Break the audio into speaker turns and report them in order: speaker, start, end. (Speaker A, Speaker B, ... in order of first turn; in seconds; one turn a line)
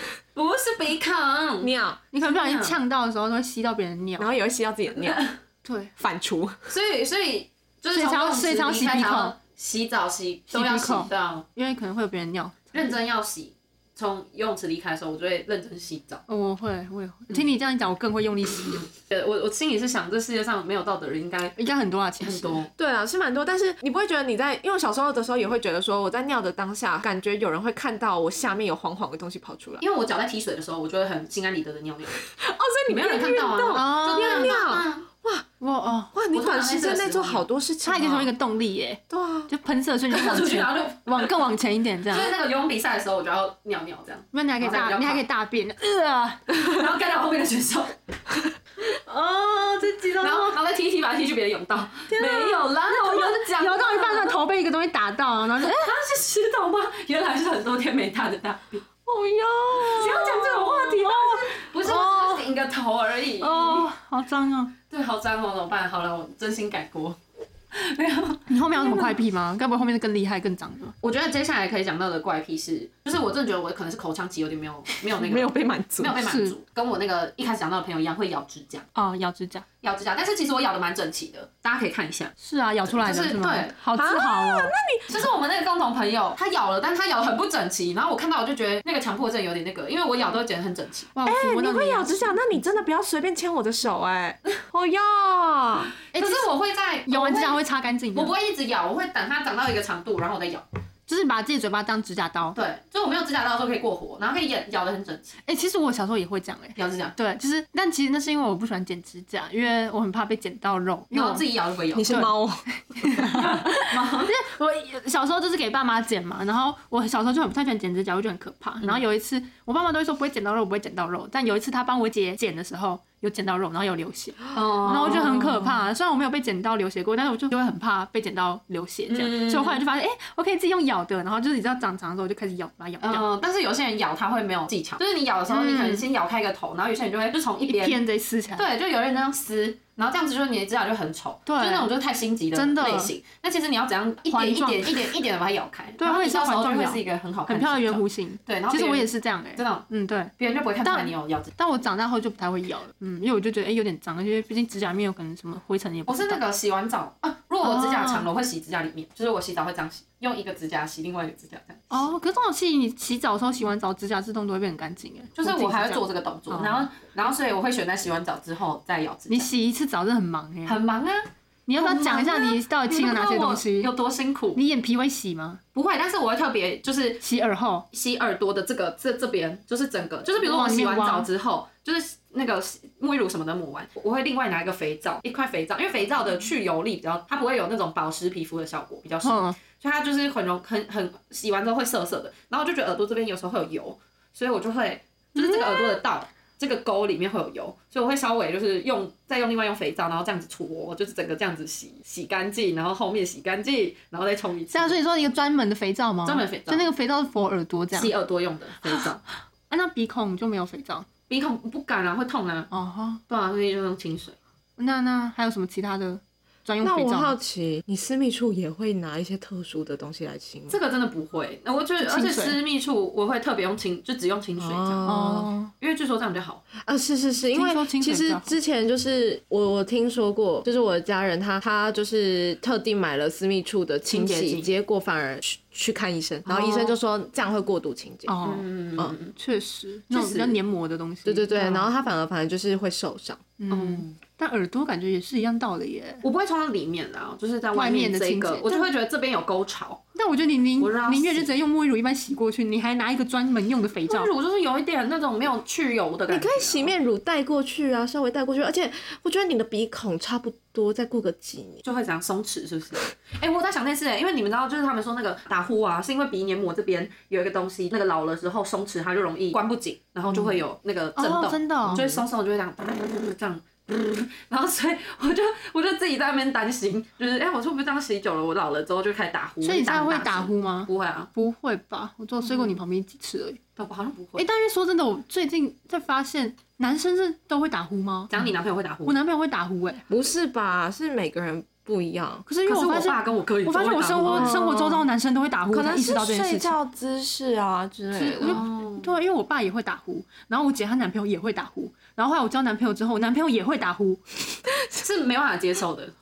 Speaker A: 0.3-1.7
Speaker B: 1.6-2.0
Speaker C: 2.1-4.3
Speaker A: 2.2-2.8
Speaker B: 4.2-5.2
Speaker A: 5.0-5.3
Speaker C: 5.7-5.9
Speaker B: 6.0-6.6
Speaker A: 6.7-11.5
Speaker C: 7.9-9.4
Speaker C: 10.5-12.9
Speaker A: 12.7-16.2
Speaker C: 16.3-18.9
Speaker A: 19.1-21.5
Speaker C: 21.6-22.6
Speaker A: 22.2-22.7
Speaker B: 22.8-29.8
Speaker A: 29.8-32.2
Speaker B: 32.3-35.5
Speaker A: 32.9-35.1
Speaker C: 33.7-34.6
Speaker C: 35.6-36.1
Speaker B: 36.1-38.3
Speaker A: 36.3-37.5
Speaker C: 37.8-42.3
Speaker B: 39.1-39.5
Speaker A: 40.1-41.3
Speaker A: 42.1-45.2
Speaker C: 44.3-46.5
Speaker A: 46.6-48.0
Speaker C: 49.0-50.6
Speaker A: 50.2-54.4
Speaker C: 52.1-55.9
Speaker B: 52.2-52.6
Speaker A: 55.6-58.9
Speaker B: 59.0-61.5
Speaker A: 59.8-63.9
Speaker C: 61.8-62.5
Speaker C: 63.4-64.7
Speaker A: 64.9-67.2
Speaker A: 67.7-69.1
Speaker C: 68.5-70.9
Speaker A: 71.0-78.9
Speaker B: 75.1-76.2
Speaker C: 76.2-76.5
Speaker C: 79.0-79.7
Speaker A: 79.8-82.3
Speaker C: 82.4-84.7
Speaker A: 82.8-83.8
Speaker B: 83.9-85.3
Speaker A: 85.1-91.1
Speaker C: 91.2-92.6
Speaker B: 91.2-95.9
Speaker C: 96.1-96.5
Speaker A: 96.1-97.6
Speaker C: 97.1-98.3
Speaker A: 98.1-100.6
Speaker C: 101.1-102.6
Speaker A: 102.5-105.4
Speaker C: 105.5-111.5
Speaker A: 106.8-107.2
Speaker A: 111.1-112.3
Speaker B: 111.9-113.6
Speaker C: 112.1-112.4
Speaker C: 113.0-133.3
Speaker A: 113.3-114.3
Speaker A: 124.5-125.8
Speaker A: 129.1-129.8
Speaker A: 133.0-138.0
Speaker C: 135.5-136.1
Speaker C: 137.7-138.7
Speaker A: 138.6-149.9
Speaker C: 141.5-141.9
Speaker C: 142.5-143.1
Speaker C: 144.3-145.1
Speaker C: 146.0-156.4
Speaker A: 150.4-151.5
Speaker A: 156.1-162.1
Speaker C: 157.6-158.3
Speaker C: 161.9-166.9
Speaker A: 165.4-169.5
Speaker C: 169.3-170.8
Speaker A: 170.7-171.3
Speaker C: 171.7-173.9
Speaker A: 171.8-174.6
Speaker C: 174.6-175.6
Speaker A: 175.8-177.2
Speaker C: 177.2-177.9
Speaker A: 177.9-205.0
Speaker C: 180.4-181.3
Speaker C: 189.2-189.6
Speaker C: 195.4-196.0
Speaker C: 204.7-208.1
Speaker A: 206.2-206.9
Speaker A: 207.9-209.2
Speaker C: 209.7-211.1
Speaker A: 211.3-212.7
Speaker C: 212.7-213.2
Speaker A: 213.3-214.4
Speaker C: 214.8-217.4
Speaker B: 216.8-220.8
Speaker A: 220.7-226.6
Speaker C: 222.0-222.6
Speaker B: 224.6-225.5
Speaker C: 225.1-225.7
Speaker B: 226.8-238.4
Speaker C: 227.5-228.5
Speaker A: 234.1-234.7
Speaker A: 236.5-236.9
Speaker C: 238.3-238.7
Speaker A: 238.4-239.4
Speaker C: 239.4-241.9
Speaker A: 240.1-240.6
Speaker B: 241.2-243.4
Speaker C: 243.6-246.2
Speaker A: 243.7-244.2
Speaker A: 246.2-250.0
Speaker C: 247.7-248.8
Speaker C: 250.2-254.3
Speaker A: 250.8-251.5
Speaker A: 254.1-256.9
Speaker B: 256.3-261.8
Speaker A: 261.8-281.3
Speaker C: 271.2-272.1
Speaker B: 271.9-272.2
Speaker C: 279.6-283.6
Speaker A: 282.5-282.7
Speaker A: 283.8-284.4
Speaker C: 284.4-288.3
Speaker A: 288.3-289.2
Speaker C: 289.1-290.0
Speaker B: 290.1-292.5
Speaker C: 292.5-296.8
Speaker A: 292.7-294.5
Speaker B: 294.3-295.1
Speaker B: 295.7-298.6
Speaker C: 298.2-304.2
Speaker A: 298.4-299.1
Speaker A: 304.9-306.1